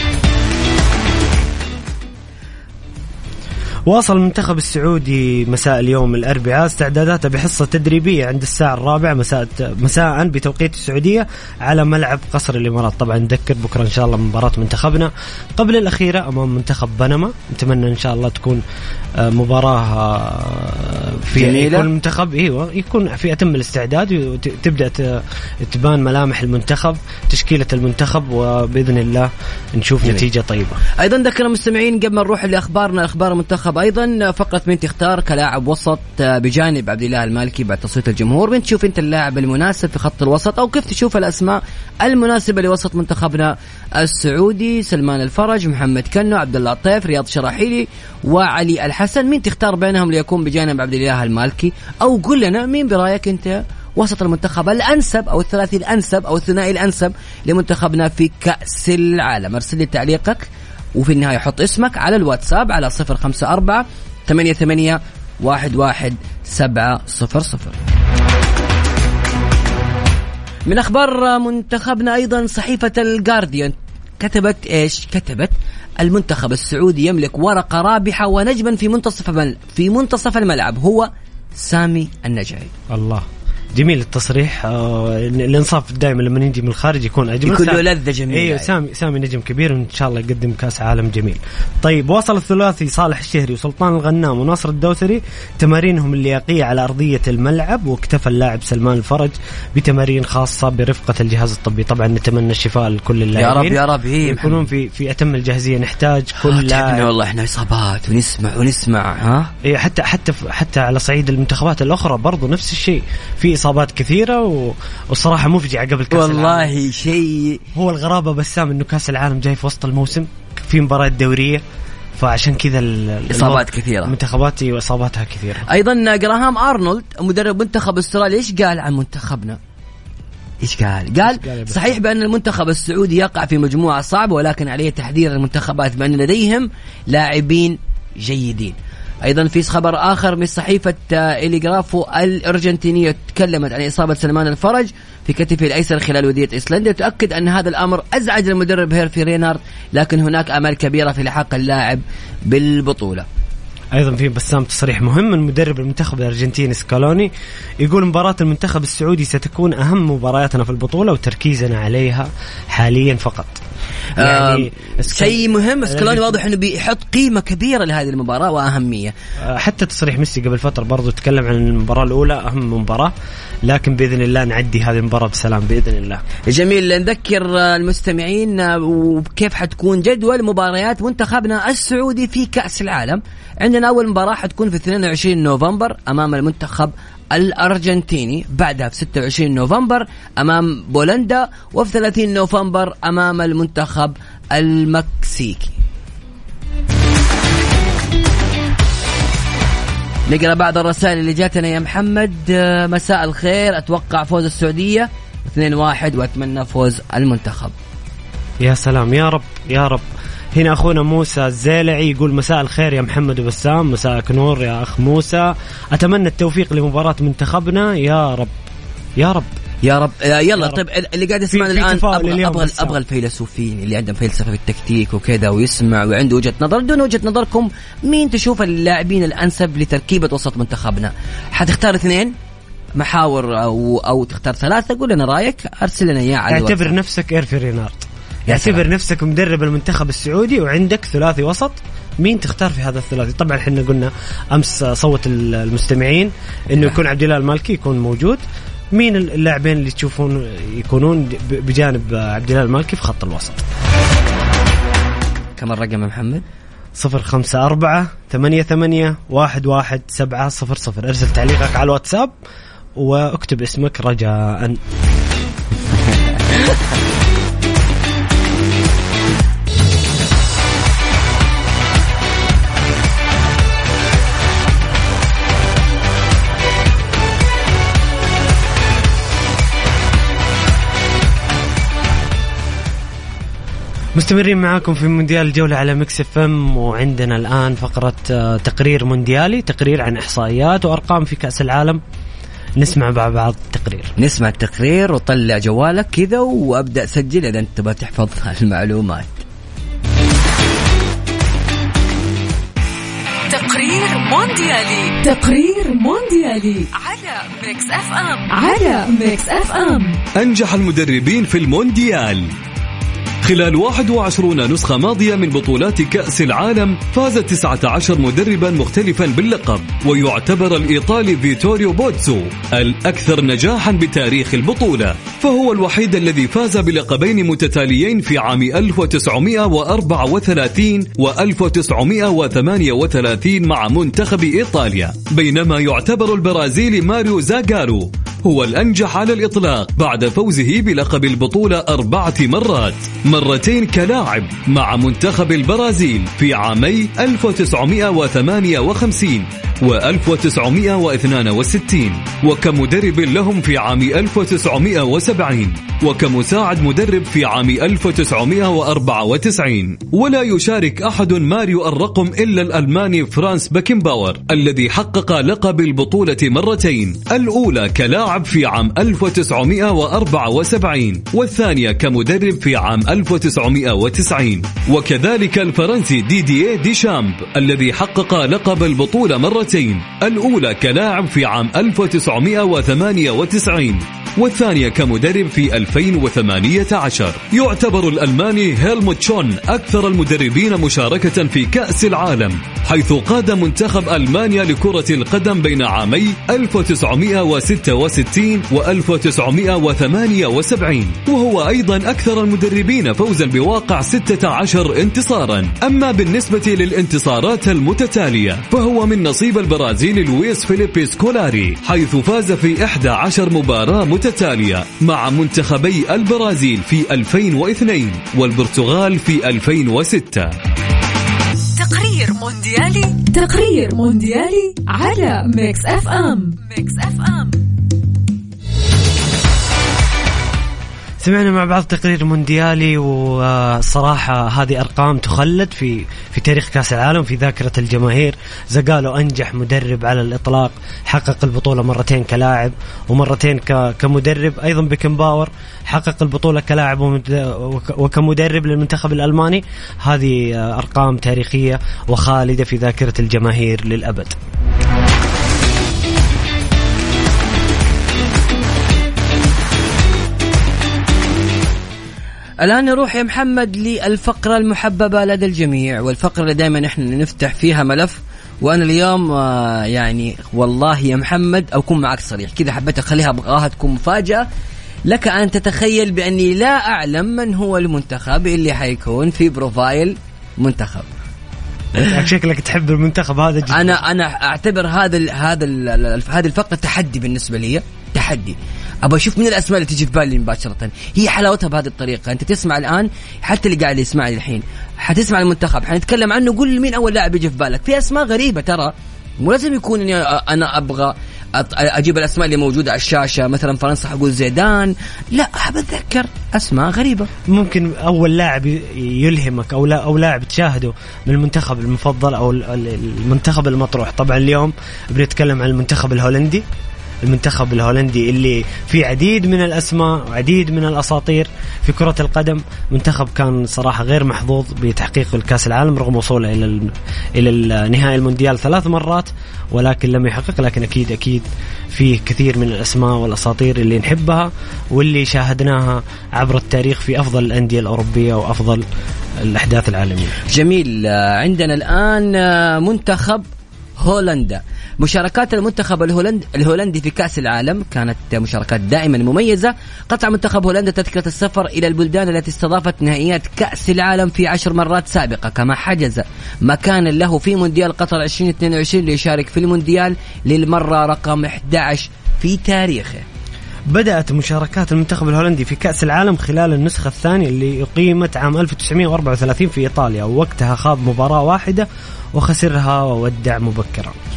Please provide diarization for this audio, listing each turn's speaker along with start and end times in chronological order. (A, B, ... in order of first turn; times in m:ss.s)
0:03.9-0:18.6 A
0:19.2-0:30.8 A
0:21.3-0:21.9 B
0:31.0-1:07.8 B
1:10.7-1:22.7 B
1:22.9-1:47.1 A
1:27.4-1:28.7 B
1:43.4-1:44.6 B
1:46.4-1:49.5 B
1:49.6-1:56.7 A
1:56.1-1:57.6 B
1:57.8-2:01.6 A
2:02.2-2:05.6 A
2:03.3-2:04.1 B
2:05.7-2:09.6 B
2:10.6-2:33.3 B
2:11.2-2:11.8 A
2:33.9-2:43.6 A
2:44.2-2:49.1 B
2:44.2-2:46.4 A
2:49.4-2:53.1 A
2:53.6-2:56.2 A
2:56.5-3:15.8 B
3:20.3-3:27.7 B
3:28.6-3:38.5 A
3:39.2-3:39.5 A
3:39.8-3:52.3 B
3:41.5-3:43.0 A
3:53.0-3:56.9 B
3:56.5-4:13.6 A
3:58.5-3:58.8 B
4:15.6-4:16.4 B
4:17.0-4:22.3 A
4:23.0-4:24.8 A
4:44.1-4:52.0 A
4:52.8-4:54.1 A
4:54.2-4:59.4 B
5:03.5-5:10.2 C
5:10.3-5:12.5 D
5:13.4-7:00.6 D
7:01.8-7:07.6 C
7:11.2-7:34.4 A
7:42.6-7:54.4 B
7:55.1-8:01.0 B
8:02.0-8:04.0 A
8:03.7-8:27.3 B
8:27.5-8:36.6 A
8:37.2-8:58.8 A
8:59.4-9:00.4 A
9:00.5-9:03.4 B
9:04.0-9:23.2 B
9:23.9-9:34.1 A